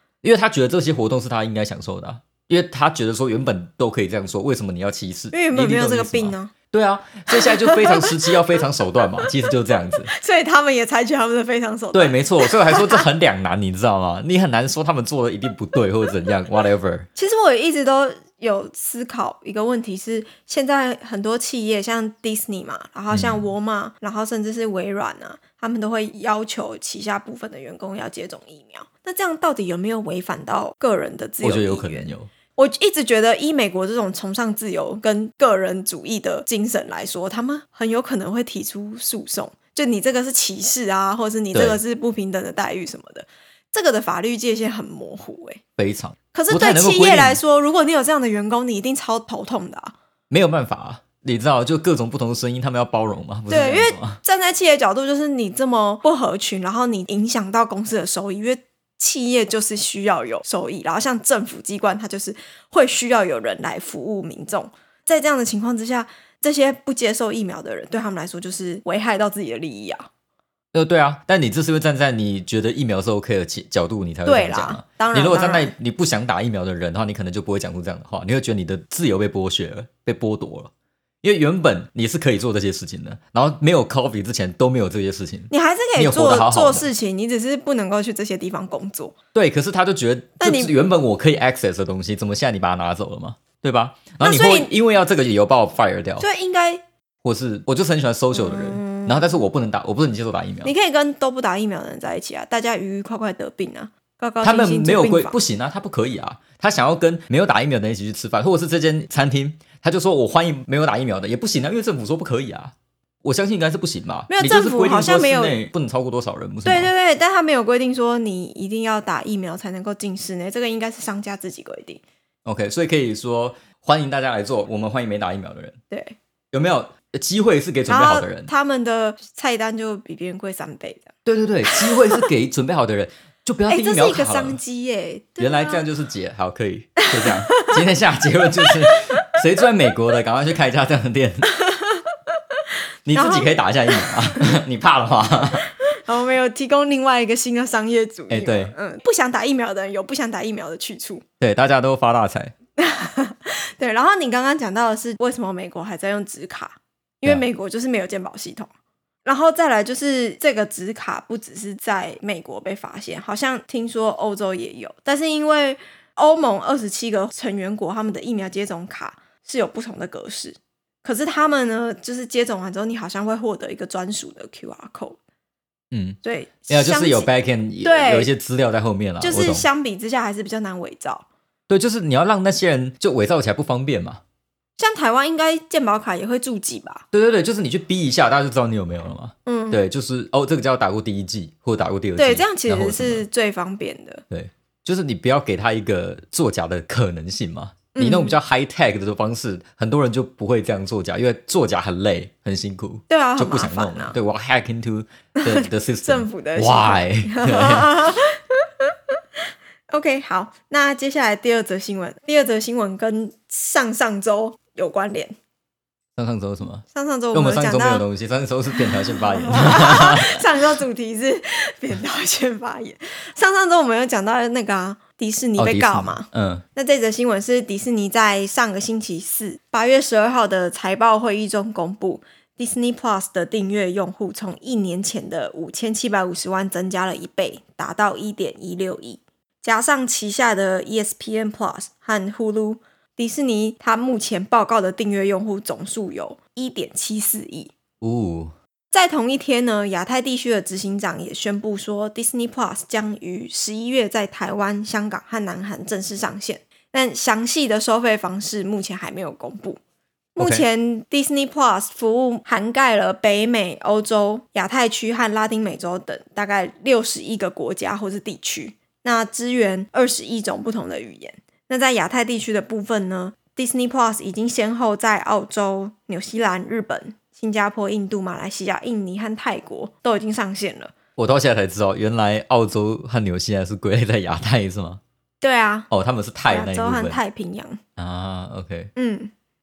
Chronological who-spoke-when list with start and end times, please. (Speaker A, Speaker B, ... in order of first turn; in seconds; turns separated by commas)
Speaker A: 0.2-10.1, Speaker B: 5.3-6.5, Speaker B: 7.3-8.3, Speaker B: 10.1-13.1, Speaker A: 11.9-17.1, Speaker B: 17.2-32.0, Speaker A: 23.1-23.4, Speaker A: 31.4-32.3, Speaker B: 32.6-45.6, Speaker A: 41.5-41.8, Speaker A: 45.8-47.4, Speaker B: 46.3-49.9, Speaker A: 50.3-54.2, Speaker B: 53.5-70.1, Speaker A: 70.7-80.7, Speaker B: 74.3-75.7, Speaker A: 81.2-86.9, Speaker B: 85.5-89.2, Speaker A: 89.3-96.3, Speaker B: 90.4-90.8, Speaker B: 94.2-94.7, Speaker B: 96.2-96.8, Speaker A: 97.2-100.7, Speaker B: 98.3-99.4, Speaker B: 100.6-105.4, Speaker A: 104.4-116.9, Speaker B: 114.3-115.6, Speaker B: 116.7-122.0, Speaker A: 122.5-125.8, Speaker B: 125.9-126.2, Speaker A: 126.5-128.5, Speaker B: 127.9-131.1, Speaker A: 131.3-134.6, Speaker B: 131.7-132.2, Speaker B: 133.7-135.8, Speaker A: 135.4-141.5, Speaker B: 137.2-137.7, Speaker B: 141.6-142.1, Speaker A: 143.1-145.7, Speaker B: 143.2-144.4, Speaker B: 146.0-151.2, Speaker A: 148.3-148.7, Speaker A: 151.4-152.5, Speaker B: 152.8-158.7, Speaker B: 159.2-175.2, Speaker A: 175.9-179.7, Speaker B: 176.2-177.3, Speaker B: 177.8-178.3, Speaker B: 179.2-181.3, Speaker A: 181.7-184.2, Speaker B: 184.8-187.0, Speaker A: 187.1-193.2, Speaker B: 189.5-189.8, Speaker B: 192.2-194.2, Speaker A: 194.3-208.1, Speaker B: 197.9-198.4, Speaker B: 203.1-204.2, Speaker B: 205.4-208.8, Speaker B: 209.9-215.3, Speaker A: 216.2-220.5, Speaker B: 216.9-218.1, Speaker B: 218.8-247.7, Speaker A: 225.6-226.6, Speaker A: 248.0-248.5, Speaker B: 248.9-259.8, Speaker B: 260.4-280.9, Speaker A: 260.4-260.6, Speaker A: 281.2-285.0, Speaker B: 285.4-285.9, Speaker A: 285.9-287.2, Speaker B: 286.5-287.8, Speaker A: 288.0-288.9, Speaker B: 289.0-289.3